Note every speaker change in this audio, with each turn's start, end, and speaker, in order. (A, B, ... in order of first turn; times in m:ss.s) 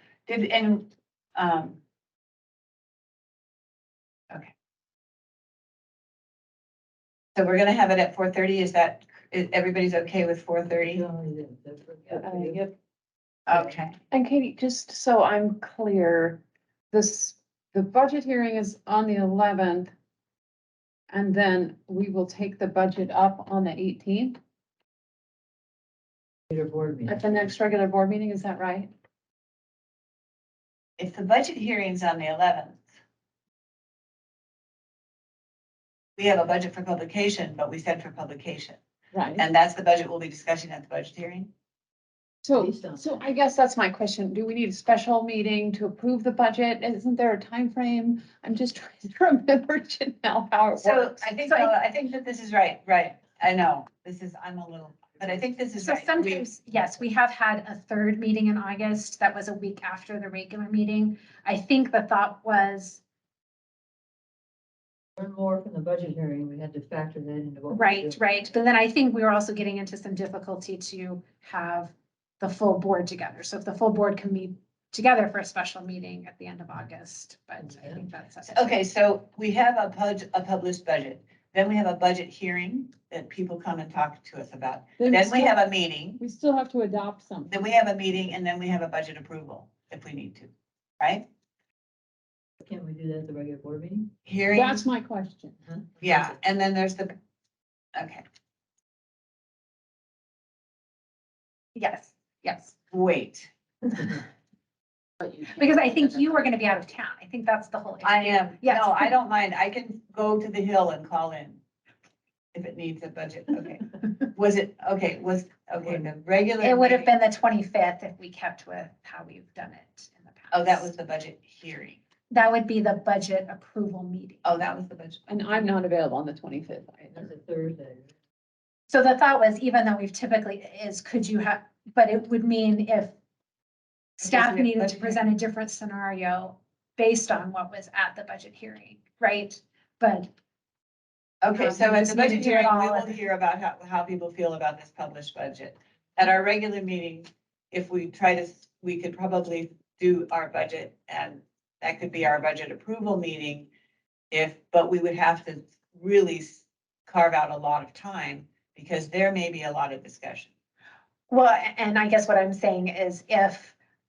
0:00.3-0:01.8 A
0:07.3-0:11.0 A
0:10.9-0:12.7 B
0:12.2-0:12.7 C
0:13.5-0:14.0 A
0:13.5-0:13.7 B
0:14.1-0:19.9 C
0:21.1-0:24.4 C
0:26.5-0:27.2 B
0:27.1-0:28.9 C
0:31.0-0:32.8 A
0:36.2-0:38.8 A
0:39.1-0:39.4 C
0:39.4-0:41.5 A
0:42.4-0:51.3 C
0:42.5-0:43.2 B
0:50.8-0:56.4 A
0:51.4-0:51.7 D
0:55.8-1:03.0 D
1:05.2-1:08.2 B
1:07.7-1:18.8 D
1:17.6-1:18.0 B
1:18.5-1:26.2 A
1:25.0-1:25.6 C
1:26.2-1:27.5 C
1:27.4-1:31.2 A
1:32.6-1:34.1 B
1:34.2-1:34.8 A
1:34.5-1:35.6 C
1:35.6-1:36.3 B
1:36.0-1:37.1 A
1:37.9-1:38.2 A
1:41.7-1:42.7 D
1:42.9-1:43.5 A
1:45.4-1:49.1 D
1:48.0-1:51.6 A
1:52.5-1:57.1 A
1:56.6-2:00.9 D
2:00.5-2:02.0 A
2:02.3-2:04.4 D
2:04.4-2:05.2 A
2:05.3-2:07.3 C
2:07.1-2:08.1 B
2:08.9-2:13.1 D
2:14.2-2:20.3 D
2:14.2-2:15.2 A
2:21.4-2:33.7 A
2:21.5-2:23.2 D
2:34.3-2:40.5 A
2:41.3-2:43.8 D